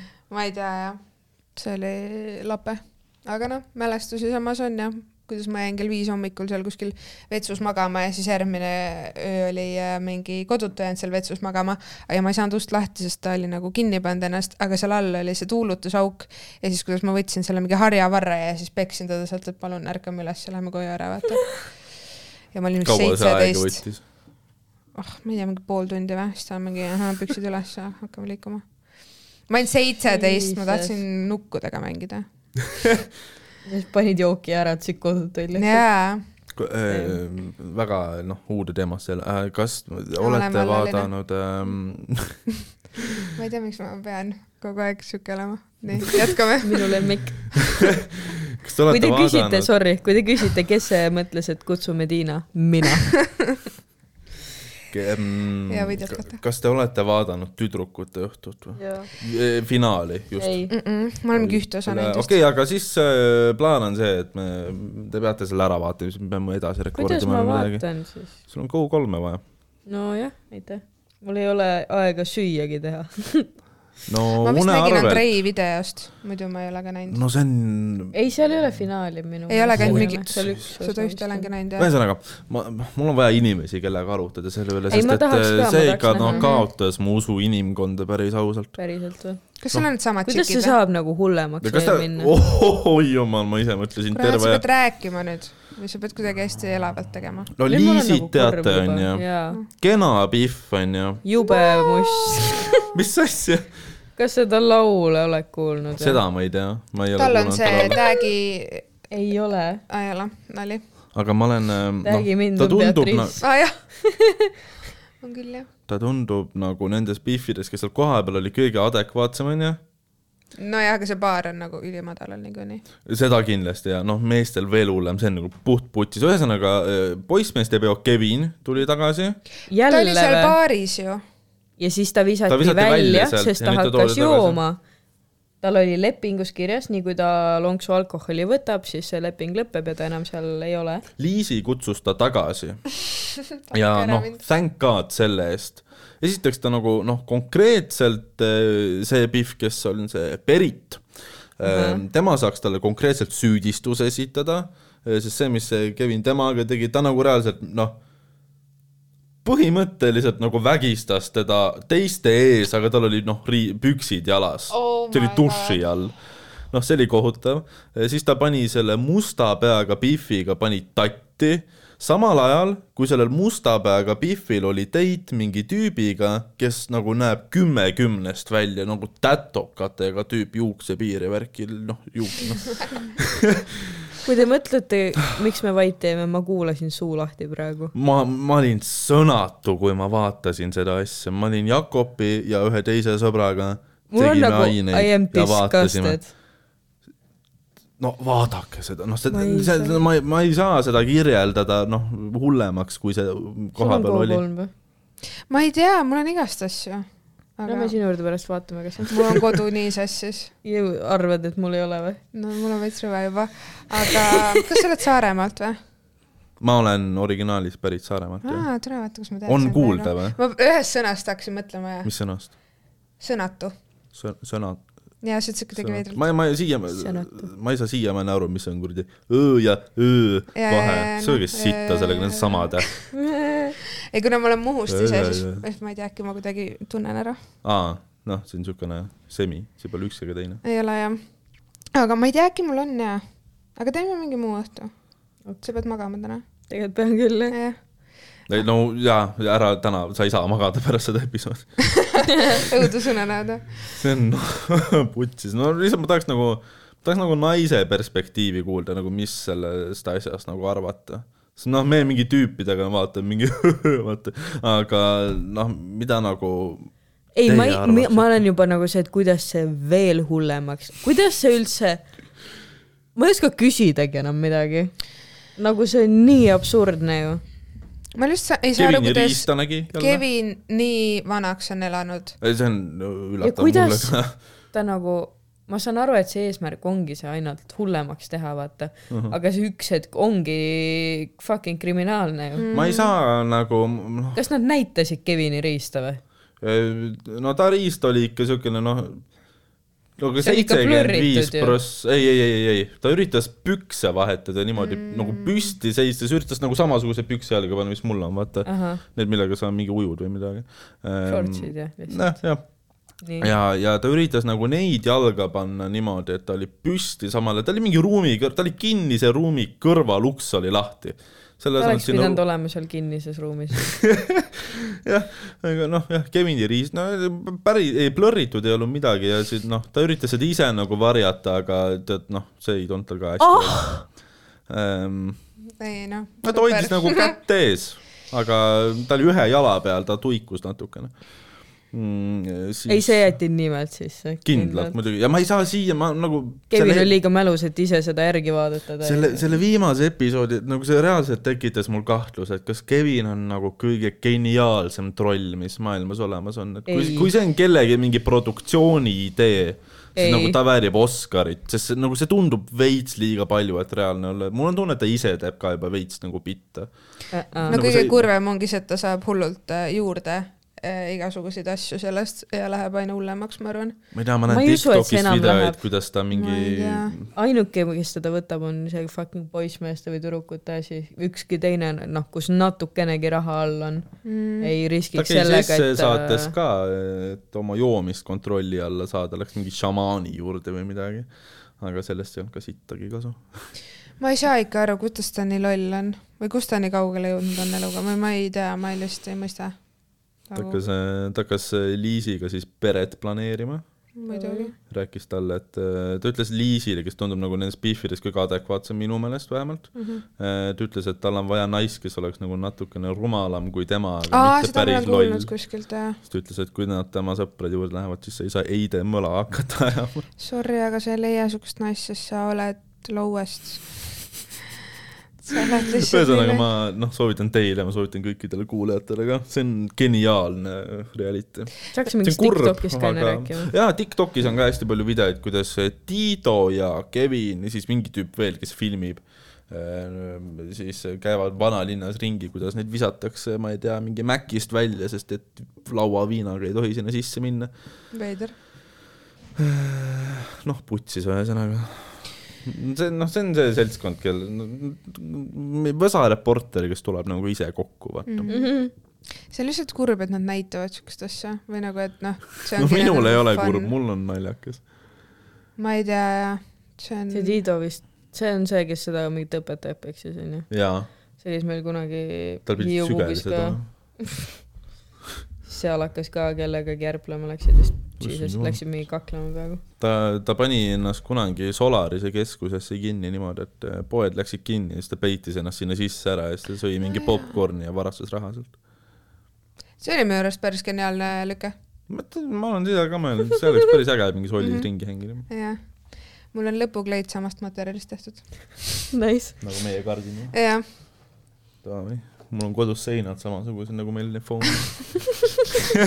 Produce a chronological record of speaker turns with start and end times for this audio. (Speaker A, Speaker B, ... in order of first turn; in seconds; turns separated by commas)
Speaker A: 0.3-21.9, Speaker A: 22.5-24.0, Speaker B: 22.8-24.1, Speaker A: 24.9-32.7, Speaker C: 30.1-30.9, Speaker C: 33.6-35.8, Speaker A: 35.5-36.2, Speaker B: 36.5-42.5, Speaker C: 36.9-37.2, Speaker A: 40.2-41.1, Speaker A: 43.3-47.5, Speaker C: 46.6-47.7, Speaker B: 48.5-49.7, Speaker C: 48.9-53.3, Speaker B: 54.9-60.7, Speaker A: 55.7-56.4, Speaker C: 58.8-59.1, Speaker C: 60.4-60.7, Speaker A: 60.7-62.4, Speaker B: 61.3-69.4, Speaker C: 66.9-68.3, Speaker C: 69.9-73.5, Speaker B: 74.1-75.2, Speaker A: 74.4-77.2, Speaker B: 77.1-78.1, Speaker C: 78.1-81.5, Speaker A: 79.5-81.9, Speaker B: 79.7-80.6, Speaker B: 81.8-88.8, Speaker C: 84.9-86.5, Speaker A: 86.2-86.7, Speaker C: 88.8-89.6, Speaker A: 89.6-90.8, Speaker C: 90.2-92.3, Speaker B: 91.6-94.6, Speaker A: 94.1-97.5, Speaker B: 97.5-101.2, Speaker C: 97.7-99.6, Speaker C: 101.2-102.7, Speaker B: 102.8-103.7, Speaker C: 104.2-106.2, Speaker B: 106.0-108.0, Speaker A: 107.2-108.9, Speaker C: 109.1-109.8, Speaker A: 109.9-110.8, Speaker B: 111.1-113.4, Speaker C: 112.0-114.5, Speaker A: 113.4-113.8, Speaker A: 115.2-115.7, Speaker B: 115.9-119.8, Speaker A: 120.6-122.8, Speaker B: 123.0-129.4, Speaker C: 129.7-130.5, Speaker A: 129.9-131.2, Speaker C: 131.8-134.8, Speaker B: 132.5-134.6, Speaker C: 135.6-141.0, Speaker B: 141.2-143.0, Speaker B: 143.6-158.0, Speaker A: 143.7-144.4, Speaker C: 151.6-152.0, Speaker B: 159.4-183.7, Speaker A: 164.7-165.8, Speaker C: 184.2-187.9, Speaker B: 187.9-196.3, Speaker C: 194.1-196.3, Speaker B: 198.0-204.5, Speaker C: 199.3-200.0, Speaker C: 203.8-204.7, Speaker A: 205.5-208.0, Speaker C: 207.7-209.2, Speaker A: 209.1-210.5, Speaker C: 210.6-212.2, Speaker A: 212.3-215.8, Speaker B: 216.6-218.7, Speaker A: 218.4-222.1, Speaker B: 219.4-220.4, Speaker B: 222.0-222.6, Speaker A: 223.2-223.7, Speaker B: 224.1-225.2, Speaker A: 225.2-226.3, Speaker B: 225.8-233.1, Speaker C: 227.0-227.5, Speaker A: 230.5-233.1, Speaker C: 233.4-233.7, Speaker A: 234.1-237.4, Speaker B: 234.9-235.6, Speaker B: 237.6-240.6, Speaker A: 240.6-246.4, Speaker C: 246.7-247.6, Speaker A: 247.5-247.9, Speaker B: 248.5-252.1, Speaker A: 252.1-253.9, Speaker B: 253.9-268.4, Speaker C: 267.3-272.5, Speaker C: 273.1-277.4, Speaker A: 278.1-282.4, Speaker B: 278.7-280.2, Speaker B: 282.4-284.4, Speaker C: 283.4-292.6, Speaker B: 289.1-289.4, Speaker A: 292.6-293.1, Speaker B: 292.7-294.4, Speaker C: 294.3-296.2, Speaker B: 296.6-299.5, Speaker B: 300.2-322.4, Speaker C: 300.4-301.8, Speaker A: 304.8-305.7, Speaker C: 308.6-309.0, Speaker C: 311.2-312.4, Speaker C: 313.2-313.5, Speaker C: 321.8-324.0, Speaker B: 324.0-324.4, Speaker B: 325.0-335.6, Speaker C: 333.4-334.0, Speaker A: 335.8-337.4, Speaker B: 336.4-343.4, Speaker C: 342.9-345.0, Speaker B: 344.4-347.1, Speaker C: 346.7-349.6, Speaker B: 349.0-368.3, Speaker C: 356.9-357.3, Speaker C: 360.1-360.6, Speaker C: 367.3-367.8, Speaker A: 367.7-374.0, Speaker B: 374.1-377.3, Speaker C: 374.5-375.8, Speaker A: 376.3-377.2, Speaker C: 377.3-386.5, Speaker A: 384.2-384.7, Speaker B: 385.1-393.7, Speaker A: 394.2-400.8, Speaker B: 400.5-404.1, Speaker A: 404.1-404.7, Speaker C: 404.3-404.7, Speaker B: 404.9-415.6, Speaker A: 409.9-410.2, Speaker A: 414.3-416.2, Speaker B: 416.1-420.3, Speaker A: 420.4-424.3, Speaker A: 425.4-426.6, Speaker B: 426.0-447.7, Speaker C: 431.9-433.7, Speaker A: 448.1-448.6, Speaker B: 449.6-458.5, Speaker A: 458.3-459.0, Speaker C: 458.5-458.9, Speaker A: 459.5-463.9, Speaker B: 462.7-464.9, Speaker A: 465.8-467.6, Speaker C: 467.3-474.4, Speaker B: 470.7-471.1, Speaker B: 472.6-473.9, Speaker C: 475.6-479.8, Speaker B: 478.2-479.0, Speaker B: 480.0-488.8, Speaker A: 490.0-491.7, Speaker B: 492.1-495.5, Speaker A: 494.6-498.9, Speaker C: 499.1-499.6, Speaker B: 499.6-500.5, Speaker A: 500.5-500.9, Speaker B: 501.8-505.5